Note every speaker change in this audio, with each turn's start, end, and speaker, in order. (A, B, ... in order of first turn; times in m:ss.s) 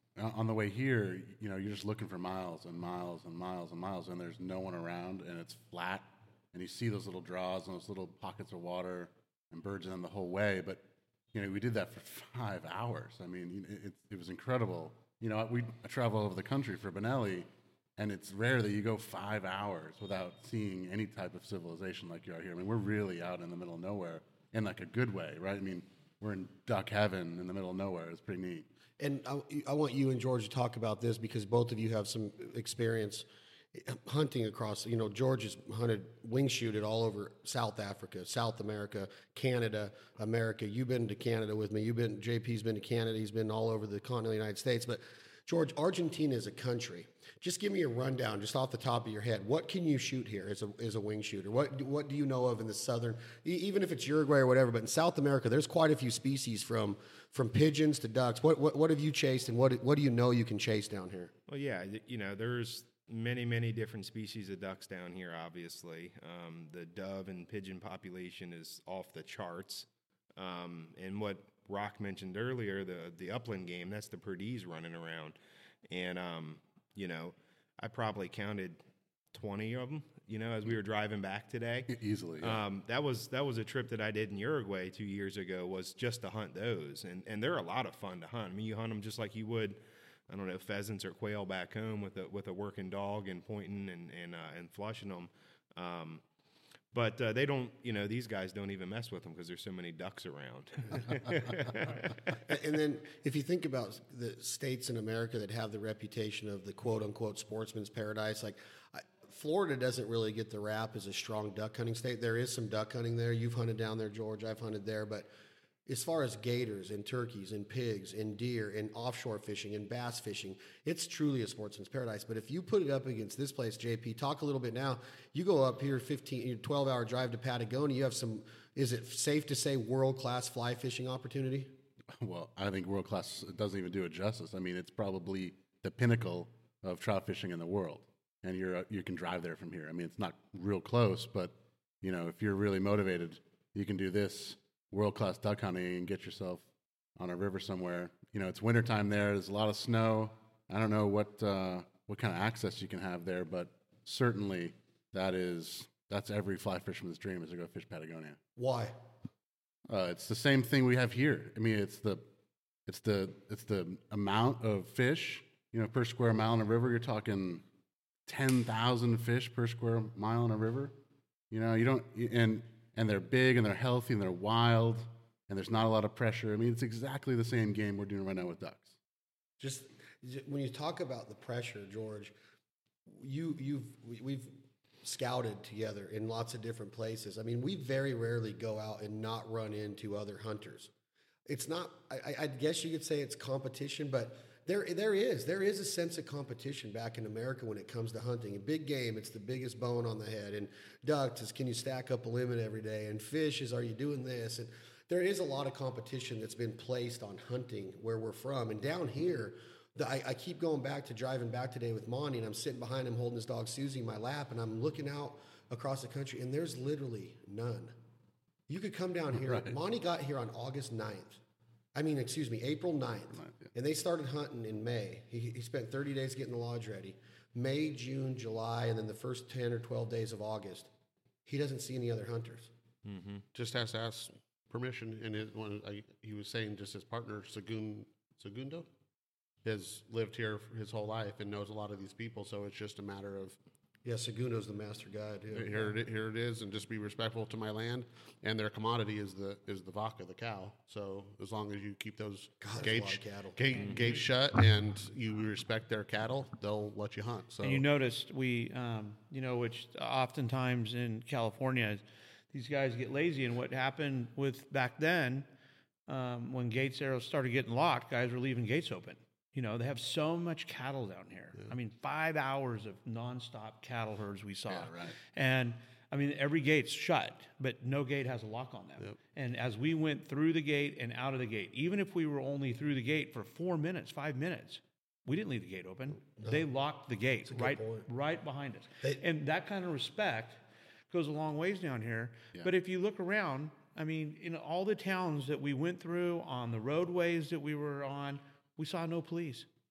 0:00.2-0:28.7 A
0:29.0-1:01.3 B
1:01.5-1:15.4 C
1:15.9-1:18.8 C
1:19.3-1:36.2 C
1:21.9-1:22.6 A
1:36.9-1:42.1 C
1:42.4-1:55.2 B
1:55.8-2:11.7 B
2:12.2-2:26.6 A
2:27.2-2:38.4 A
2:38.6-2:39.0 B
2:39.9-2:42.2 A
2:42.8-2:47.6 A
2:48.3-2:50.9 A
2:51.5-2:58.9 A
2:59.6-3:02.3 B
3:03.0-3:10.9 B
3:11.5-3:37.9 B
3:38.7-3:41.4 B
3:39.4-3:39.7 A
3:41.9-3:50.9 B
3:43.4-3:43.6 A
3:51.4-3:52.7 B
3:53.0-3:53.4 C
3:53.5-3:58.8 D
3:59.6-4:03.6 D
4:04.0-4:05.9 B
4:05.5-4:17.8 D
4:12.6-4:13.6 B
4:17.6-4:25.5 E
4:26.1-4:59.7 E
4:34.7-4:35.1 A
4:47.5-4:48.0 B